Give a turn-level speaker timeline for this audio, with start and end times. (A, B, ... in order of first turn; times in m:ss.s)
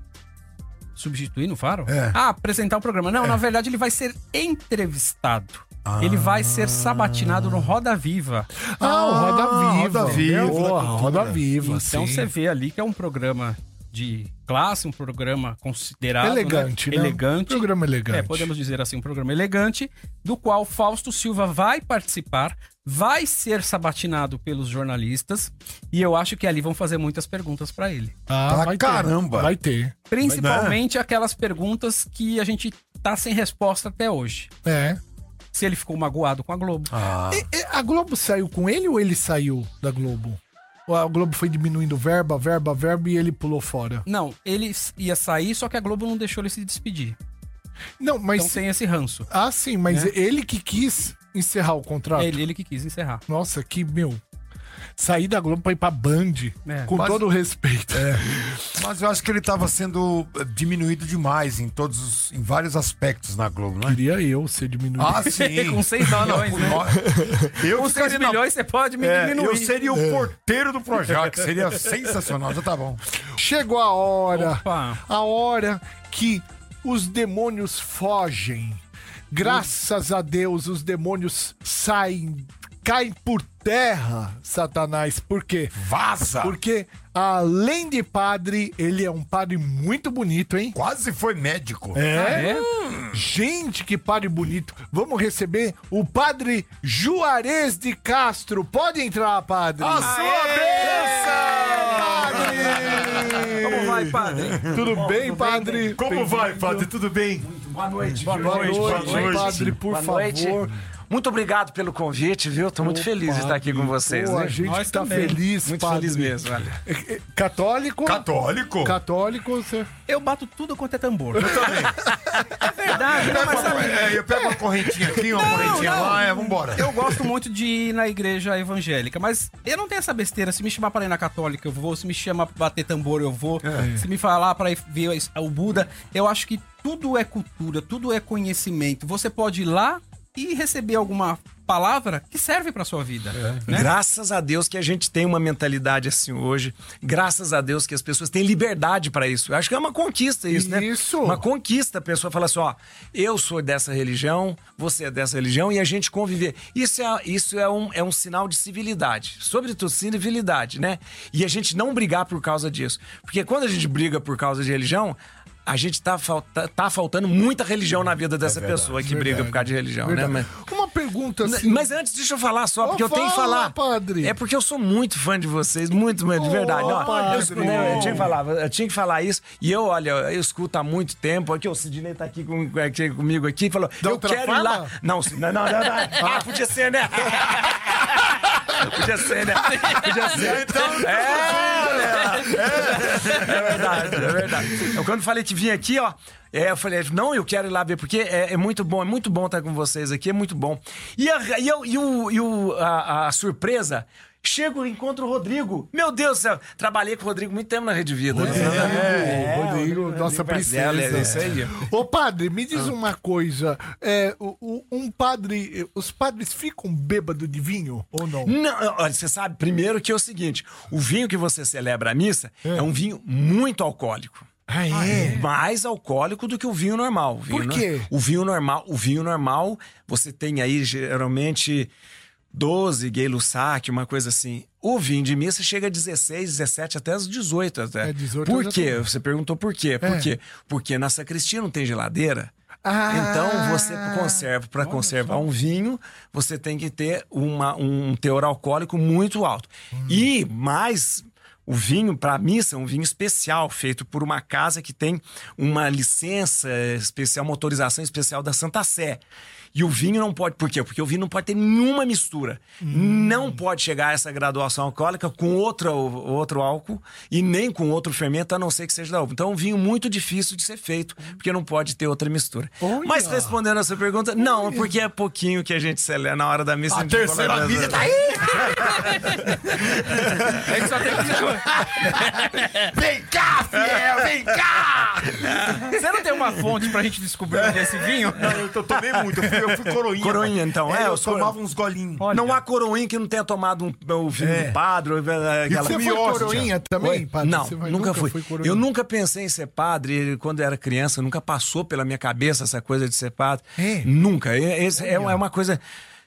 0:01.0-0:08.5 A
0:01.9-0:02.2 B
0:05.8-0:07.7 B
0:08.8-0:12.3 C
0:08.8-0:11.4 B
0:11.6-0:28.1 A
0:16.2-0:18.5 C
0:28.3-0:30.0 C
0:28.5-0:29.5 B
0:30.1-0:34.5 A
0:30.3-0:30.8 B
0:34.6-0:35.0 C
0:35.5-0:36.9 A
0:36.9-0:37.4 B
0:37.3-0:44.0 C
0:44.1-0:47.2 A
0:48.0-0:48.6 C
0:48.4-0:49.3 A
0:49.3-0:52.4 C
0:52.2-0:53.2 A
0:53.3-0:54.2 C
0:55.0-0:58.6 C
0:56.6-0:56.9 A
0:56.9-0:57.2 B
0:57.9-1:04.0 B
1:03.8-1:05.3 C
1:05.0-1:08.4 B
1:05.3-1:06.9 A
1:07.5-1:10.0 A
1:09.0-1:13.0 B
1:10.0-1:10.3 C
1:13.3-1:25.8 C
1:14.3-1:15.0 A
1:25.8-1:26.6 B
1:26.4-1:30.8 C
1:30.7-1:33.0 B
1:31.9-1:32.6 C
1:32.1-1:32.7 A
1:33.1-1:40.1 C
1:39.8-1:44.9 B
1:40.0-1:42.4 A
1:41.6-1:43.8 C
1:42.4-1:42.9 D
1:43.5-1:45.9 D
1:44.7-1:46.9 C
1:45.9-1:47.5 B
1:47.4-1:50.6 D
1:48.1-1:49.8 B
1:48.2-1:50.8 C
1:51.1-1:54.6 D
1:52.8-1:58.3 C
1:54.6-1:55.4 A
1:55.6-1:56.8 D
1:58.0-1:59.0 B
1:58.8-1:59.9 C
2:00.1-2:01.7 A
2:01.4-2:07.0 B
2:02.8-2:04.1 A
2:03.1-2:04.6 C
2:05.3-2:06.2 C
2:05.3-2:23.9 A
2:13.6-2:13.9 B
2:13.8-2:14.1 C
2:23.4-2:23.7 B
2:23.7-2:50.5 D
2:30.5-2:31.4 C
2:48.4-2:49.4 B
2:49.0-2:51.9 C
2:51.4-3:08.1 D
2:52.8-2:54.4 C
2:56.4-2:58.3 C
2:56.8-2:58.3 B
3:04.0-3:04.9 C
3:06.2-3:06.5 C
3:08.8-3:31.9 D
3:10.2-3:14.9 B
3:28.3-3:38.6 C
3:28.4-3:29.5 B
3:38.4-3:44.5 D
3:44.7-3:45.4 C
3:44.9-3:45.4 A
3:45.1-3:51.9 D
3:47.5-3:48.1 C
3:52.5-4:02.5 D
3:58.0-3:59.0 C
4:00.0-4:00.3 C
4:02.8-4:05.4 C
4:03.1-4:19.2 D
4:09.9-4:10.2 C
4:19.7-4:38.9 D
4:22.8-4:23.6 C
4:32.8-4:33.6 C
4:34.4-4:34.9 C
4:36.9-4:39.1 B
4:39.7-4:40.7 B
4:40.6-4:42.6 A
4:42.1-4:45.8 B
4:45.9-4:48.6 A
4:47.5-4:52.4 B
4:50.2-4:51.6 D
4:52.3-5:05.8 D
4:54.4-4:54.8 B
4:55.7-4:56.8 B
4:55.8-4:58.8 C
5:03.8-5:04.1 C
5:05.0-5:05.3 C